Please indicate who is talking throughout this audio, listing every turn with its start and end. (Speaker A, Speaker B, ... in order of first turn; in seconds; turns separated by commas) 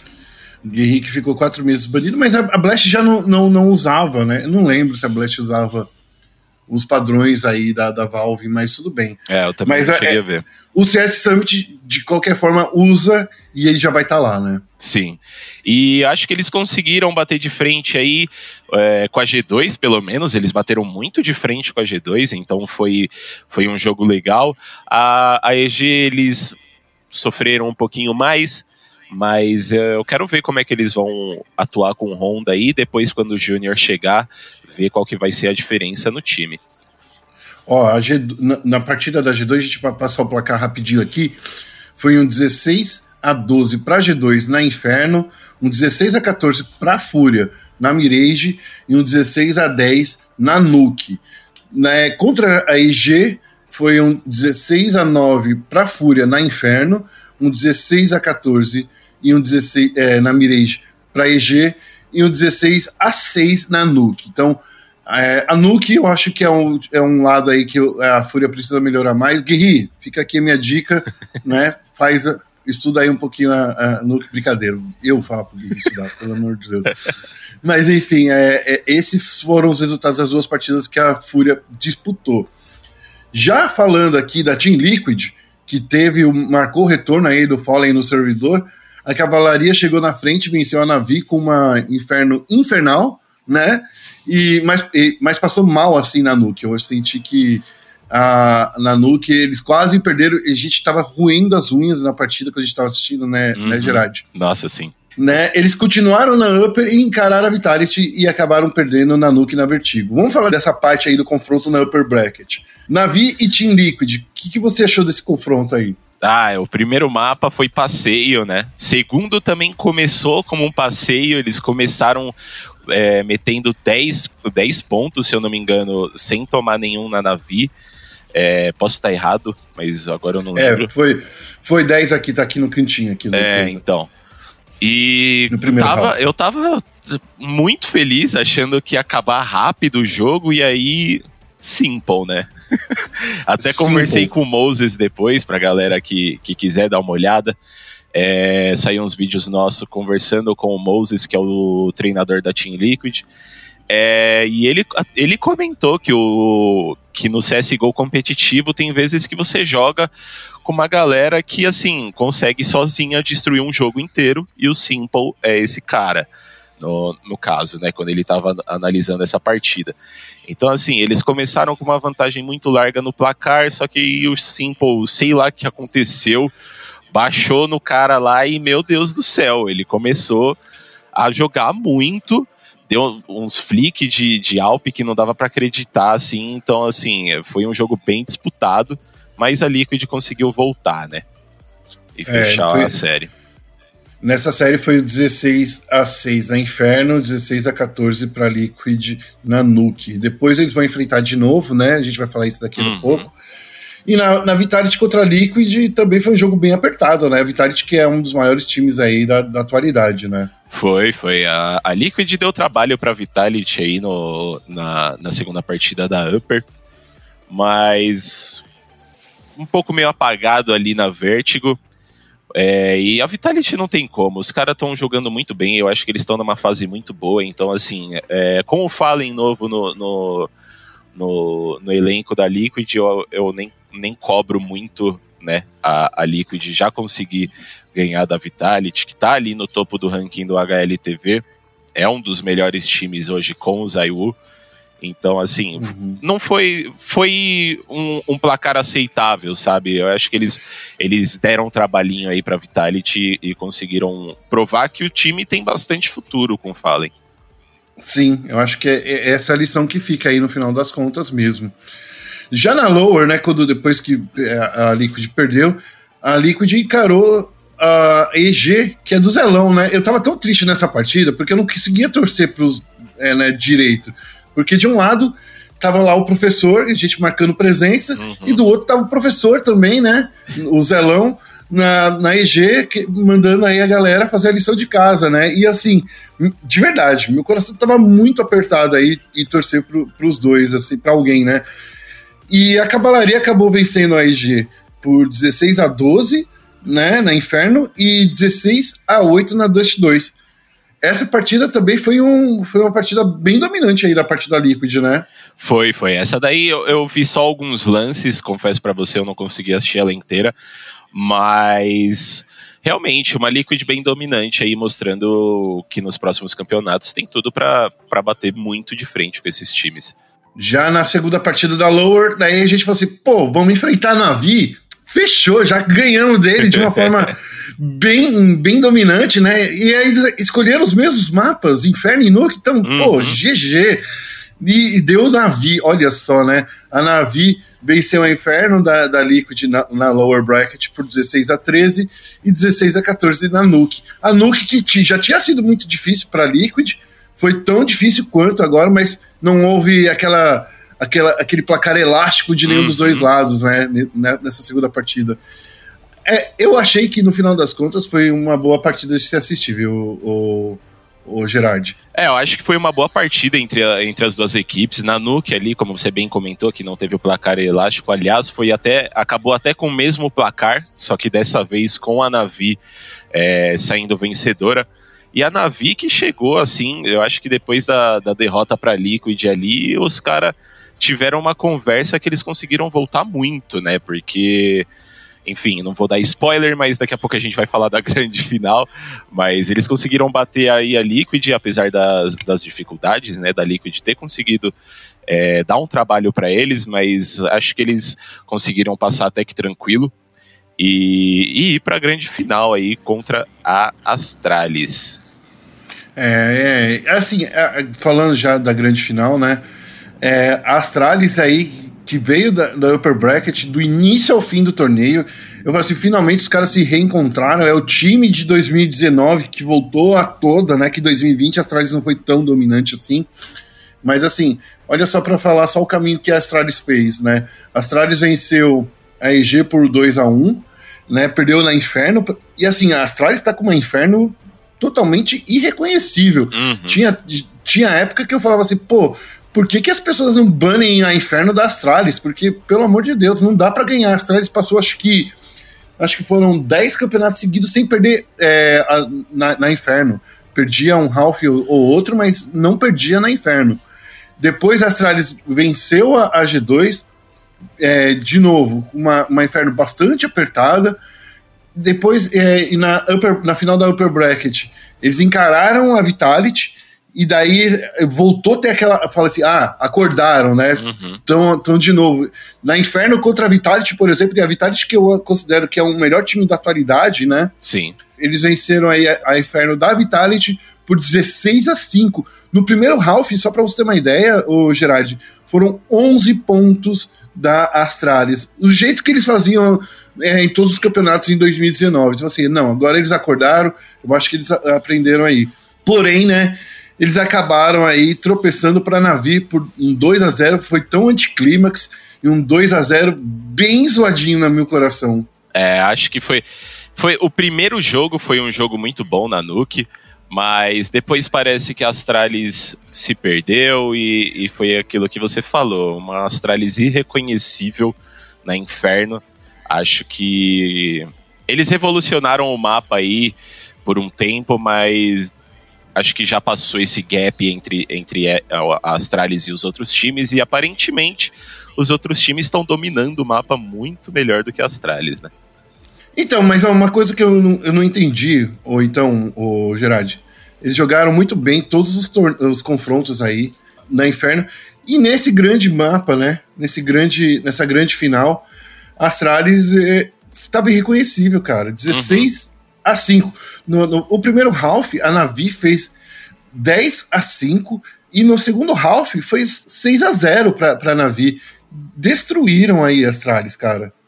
Speaker A: 0.7-5.9, Speaker A: 6.7-10.2, Speaker B: 9.3-10.5, Speaker A: 10.7-14.6, Speaker B: 14.8-26.6, Speaker B: 27.1-36.6, Speaker A: 37.7-41.4, Speaker A: 42.0-77.0, Speaker A: 77.6-82.5, Speaker A: 83.3-104.2, Speaker B: 103.6-105.0, Speaker A: 105.2-116.0, Speaker B: 116.2-122.3, Speaker B: 122.9-127.7, Speaker B: 128.3-130.9, Speaker A: 130.6-133.8, Speaker B: 133.3-134.1, Speaker B: 134.8-147.6, Speaker A: 135.5-136.2, Speaker A: 143.6-144.3, Speaker B: 148.1-153.3, Speaker B: 153.9-160.1, Speaker B: 160.6-169.9, Speaker B: 170.5-176.5, Speaker B: 177.1-180.6, Speaker B: 181.2-191.3, Speaker B: 192.2-193.3, Speaker A: 192.3-193.0, Speaker A: 194.2-203.3, Speaker B: 202.8-203.3, Speaker A: 204.1-210.5, Speaker B: 210.7-216.7, Speaker B: 217.5-218.6, Speaker B: 219.6-221.8, Speaker B: 222.6-230.5, Speaker B: 231.1-241.4, Speaker B: 241.9-244.4, Speaker B: 245.0-257.1, Speaker A: 245.8-246.2, Speaker A: 258.0-261.8, Speaker A: 262.5-291.6, Speaker B: 278.2-278.6, Speaker A: 292.5-300.3, Speaker A: 301.0-305.3, Speaker B: 305.6-310.6, Speaker B: 311.1-320.2, Speaker A: 320.6-334.0, Speaker B: 326.6-327.3, Speaker B: 332.8-333.4, Speaker A: 334.6-355.4, Speaker B: 352.6-353.3, Speaker A: 356.3-362.0, Speaker B: 362.1-372.8, Speaker B: 373.3-384.9, Speaker B: 385.4-394.7, Speaker B: 395.3-400.1, Speaker B: 400.8-405.2, Speaker A: 406.2-409.6, Speaker A: 410.2-423.3, Speaker A: 424.0-445.4, Speaker B: 436.5-437.0, Speaker A: 446.0-453.8, Speaker A: 454.4-457.1, Speaker A: 457.8-461.0, Speaker A: 461.8-477.5, Speaker B: 470.8-471.2, Speaker B: 477.6-478.0, Speaker A: 478.2-505.3, Speaker B: 505.5-506.4, Speaker B: 506.9-525.4, Speaker B: 526.0-535.3, Speaker A: 536.2-548.5, Speaker A: 549.0-555.9, Speaker B: 551.9-552.3, Speaker A: 556.5-563.9